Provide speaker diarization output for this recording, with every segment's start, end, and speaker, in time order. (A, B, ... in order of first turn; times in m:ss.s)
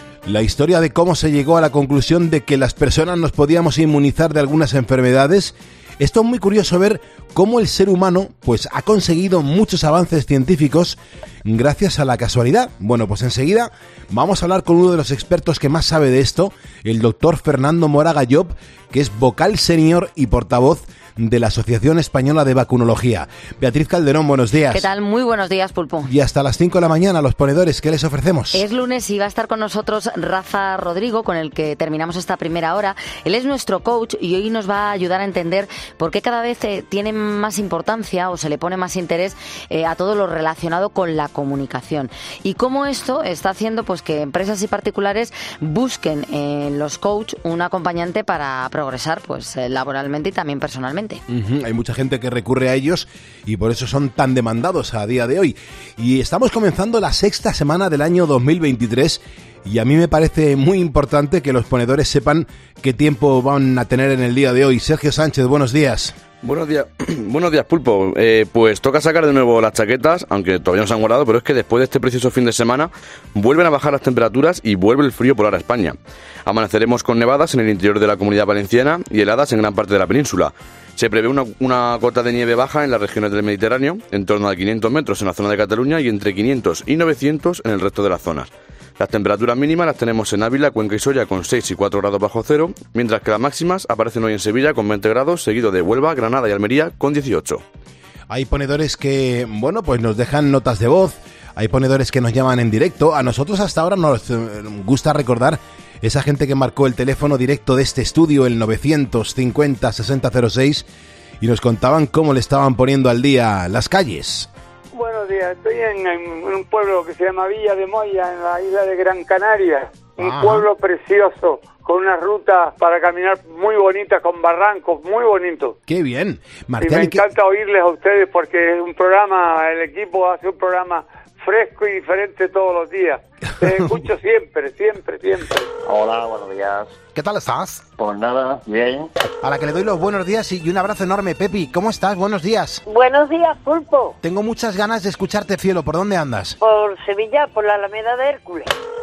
0:00.3-0:24.9 A
0:24.7-0:26.1 B
0:26.0-0:28.6 A
0:28.5-0:51.2 B
0:51.3-1:06.2 A
1:06.4-1:37.6 C
1:38.3-1:50.9 A
1:51.4-1:54.5 A
1:54.9-2:05.8 D
2:00.2-2:00.7 A
2:05.9-2:07.2 A
2:06.8-2:15.7 D
2:15.8-2:17.0 E
2:17.2-2:17.8 A
2:18.0-2:19.1 E
2:19.4-2:22.8 A
2:22.9-2:24.2 F
2:24.2-2:26.6 A
2:26.6-2:28.7 F